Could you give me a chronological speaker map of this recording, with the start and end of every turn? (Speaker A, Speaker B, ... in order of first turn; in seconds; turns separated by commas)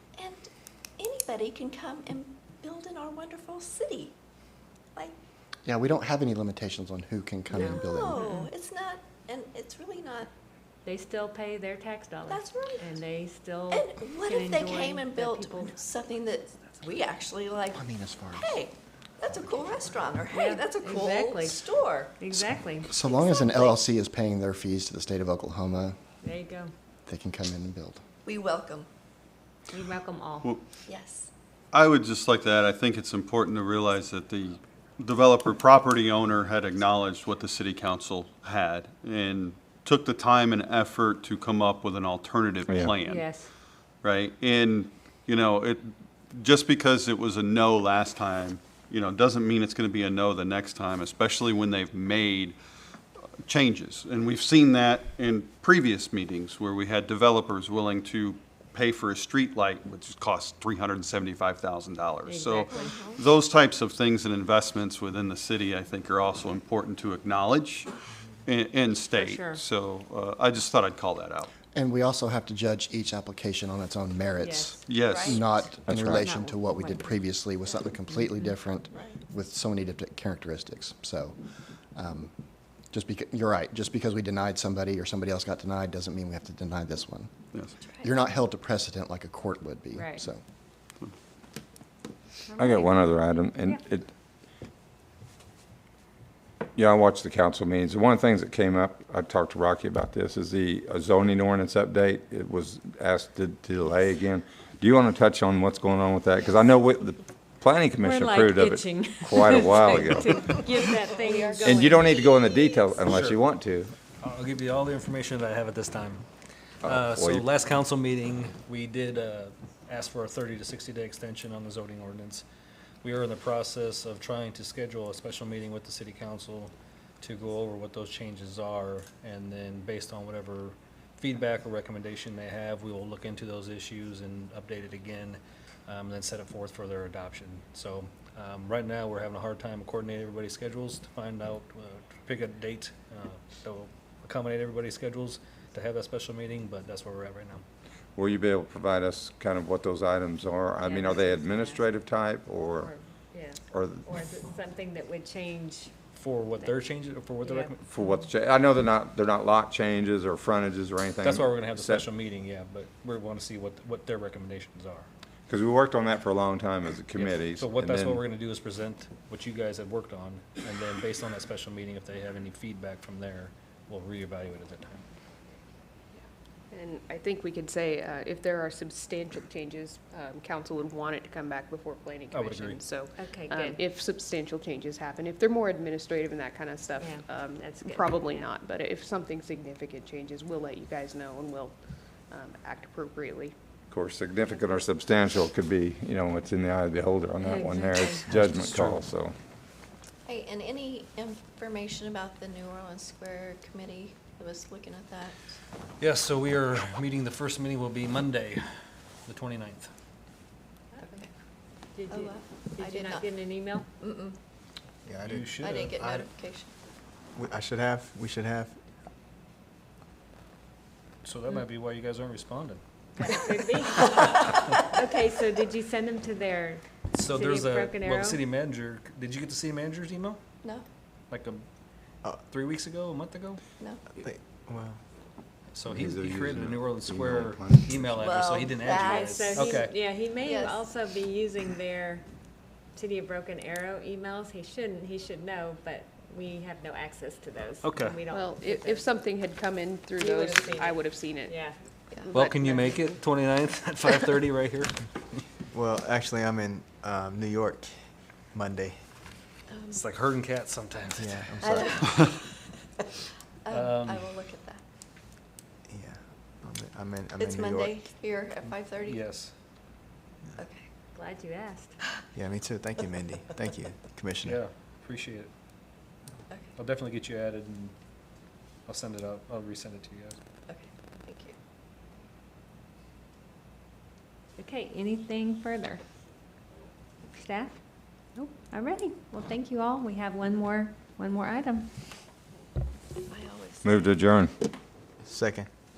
Speaker A: 0.2-0.5, Speaker A: 1.0-4.2, Speaker B: 5.7-8.4, Speaker A: 7.5-10.3, Speaker C: 10.8-15.8, Speaker A: 12.3-13.0, Speaker A: 13.7-17.8, Speaker B: 17.7-18.7, Speaker A: 18.4-22.2, Speaker B: 19.2-20.1, Speaker C: 20.3-21.6, Speaker C: 22.2-22.9, Speaker B: 22.8-26.0, Speaker A: 23.0-23.8, Speaker C: 26.2-26.7, Speaker B: 27.1-28.0, Speaker A: 28.2-28.9, Speaker C: 29.7-30.5, Speaker A: 30.9-31.3, Speaker D: 31.7-43.3, Speaker E: 42.7-43.0, Speaker C: 43.0-43.5, Speaker D: 44.0-52.6, Speaker D: 53.5-67.9, Speaker C: 62.3-62.7, Speaker A: 62.7-63.2, Speaker D: 68.5-71.5, Speaker C: 69.2-69.6, Speaker B: 71.7-81.4, Speaker C: 74.4-74.7, Speaker D: 74.9-76.0, Speaker A: 75.0-75.4, Speaker C: 76.3-77.2, Speaker A: 78.9-79.2, Speaker B: 82.0-82.3, Speaker B: 82.9-87.3, Speaker A: 87.8-88.1, Speaker B: 88.0-90.4, Speaker C: 90.0-90.2, Speaker C: 92.5-93.1, Speaker E: 92.6-94.1, Speaker E: 96.8-110.5, Speaker C: 108.0-112.0, Speaker A: 111.2-111.7, Speaker E: 111.6-113.9, Speaker F: 113.1-113.4, Speaker F: 114.2-116.3, Speaker E: 116.8-117.5, Speaker F: 116.8-122.5, Speaker F: 123.0-147.6, Speaker E: 148.2-152.9, Speaker C: 150.8-151.8, Speaker C: 152.8-155.9, Speaker E: 153.7-154.1, Speaker F: 156.1-157.8, Speaker C: 157.4-158.2, Speaker E: 157.8-162.1, Speaker F: 161.2-165.1, Speaker E: 165.5-168.2, Speaker F: 167.1-175.0, Speaker G: 176.7-191.8, Speaker F: 182.3-182.8, Speaker C: 183.2-183.8, Speaker C: 187.0-188.4, Speaker G: 192.3-193.5, Speaker E: 193.9-199.3, Speaker C: 197.4-198.6, Speaker F: 198.4-199.0, Speaker A: 200.3-205.4, Speaker F: 206.0-208.7, Speaker F: 209.3-209.9, Speaker C: 210.9-211.2, Speaker C: 211.9-213.9, Speaker A: 212.1-213.3, Speaker A: 214.0-214.4, Speaker H: 215.1-216.2, Speaker F: 215.2-216.3, Speaker A: 215.6-216.7, Speaker H: 217.3-218.8, Speaker F: 221.2-222.8, Speaker C: 223.2-228.4, Speaker F: 227.1-230.4, Speaker F: 231.3-231.7, Speaker F: 232.5-233.6, Speaker H: 234.1-235.0, Speaker F: 235.7-240.1, Speaker E: 235.9-238.1, Speaker A: 238.1-239.8, Speaker C: 239.1-242.3, Speaker A: 240.4-240.9, Speaker C: 242.9-249.1, Speaker F: 247.8-248.2, Speaker G: 248.3-251.6, Speaker C: 250.2-251.8, Speaker A: 252.1-252.8, Speaker F: 252.3-255.1, Speaker H: 255.7-259.0, Speaker A: 259.7-260.0, Speaker F: 259.9-261.7, Speaker H: 261.2-262.1, Speaker A: 261.6-262.6, Speaker A: 263.6-264.8, Speaker F: 263.7-264.3, Speaker H: 265.9-268.1, Speaker A: 267.4-269.2, Speaker F: 268.6-269.6, Speaker A: 270.6-270.9, Speaker C: 271.1-272.0, Speaker H: 272.3-274.6, Speaker F: 274.4-275.5, Speaker F: 276.8-277.9, Speaker F: 278.9-280.4, Speaker A: 280.7-281.5, Speaker C: 284.6-286.0, Speaker C: 287.3-287.8, Speaker C: 288.4-291.9, Speaker A: 293.3-294.0, Speaker E: 293.8-294.5, Speaker H: 295.2-295.7